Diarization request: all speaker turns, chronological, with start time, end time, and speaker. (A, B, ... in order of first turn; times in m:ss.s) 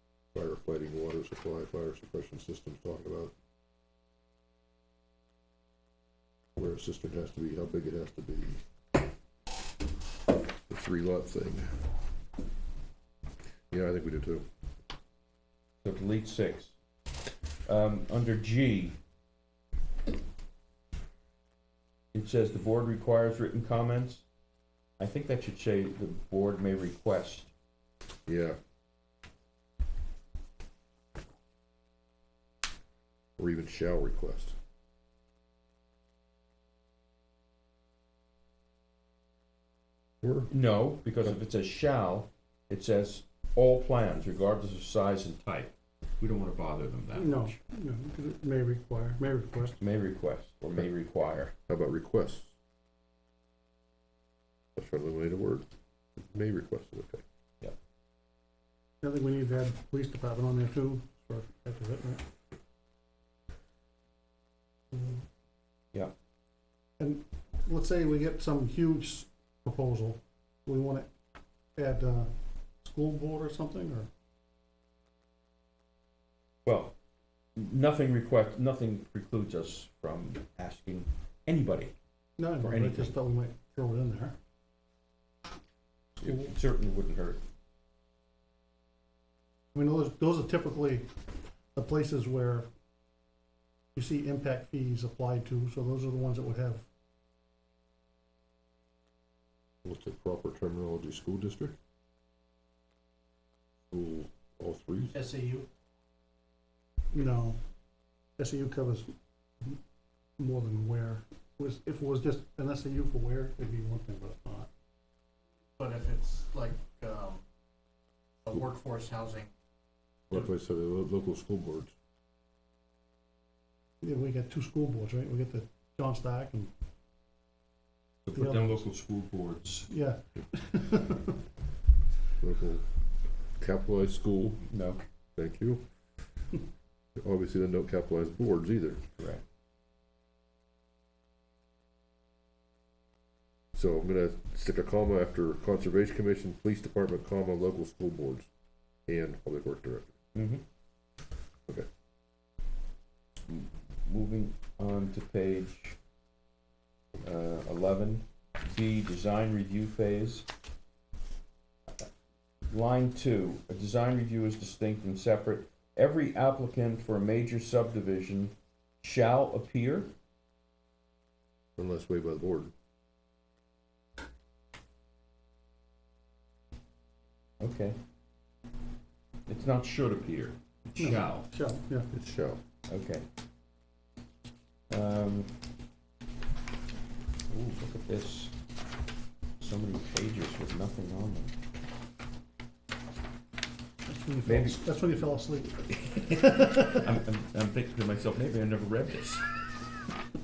0:00.3-0:03.3 A
0:06.6-0:08.6 A
0:10.7-0:11.8 A
0:13.7-0:14.4 A
0:15.8-0:16.7 B
0:17.6-0:19.0 B
0:22.1-0:24.2 B
0:25.0-0:27.5 B
0:28.3-0:28.6 A
0:33.4-0:34.5 A
0:40.2-0:40.5 A
0:40.5-0:47.6 B
0:47.1-0:49.8 C
0:49.8-0:51.5 B
0:51.7-0:52.5 A
0:54.8-0:55.6 A
0:56.2-0:57.2 A
0:59.0-1:02.2 C
1:04.9-1:05.2 C
1:07.0-1:11.1 C
1:11.8-1:12.3 C
1:12.8-1:14.1 C
1:16.6-1:16.9 B
1:17.6-1:21.9 B
1:22.4-1:24.4 C
1:22.6-1:23.1 B
1:26.2-1:27.4 B
1:26.2-1:26.5 C
1:29.7-1:31.1 C
1:31.7-1:32.6 C
1:33.9-1:36.8 C
1:39.8-1:41.7 A
1:43.9-1:45.3 A
1:45.1-1:45.7 D
1:47.1-1:47.6 C
1:48.4-1:49.1 C
1:50.4-1:54.7 C
1:55.8-1:57.4 D
1:58.4-1:59.5 D
2:00.3-2:01.9 A
2:04.0-2:06.7 C
2:08.2-2:09.9 B
2:08.4-2:08.9 C
2:09.9-2:11.3 C
2:12.4-2:13.0 A
2:13.6-2:14.6 A
2:14.7-2:15.0 B
2:15.4-2:15.8 A
2:17.2-2:19.0 A
2:19.2-2:19.4 B
2:23.7-2:28.5 A
2:29.1-2:30.1 A
2:30.3-2:30.6 B
2:33.5-2:36.0 B
2:37.2-2:40.5 B
2:42.7-2:50.1 B
2:51.8-2:52.7 A
2:57.6-2:58.0 B
2:59.5-3:01.5 B
3:01.0-3:02.1 C
3:02.1-3:02.6 A
3:02.9-3:03.2 B
3:04.9-3:05.5 B
3:07.5-3:08.5 B
3:09.6-3:11.5 B
3:14.0-3:15.8 C
3:14.4-3:14.8 B
3:15.9-3:19.4 B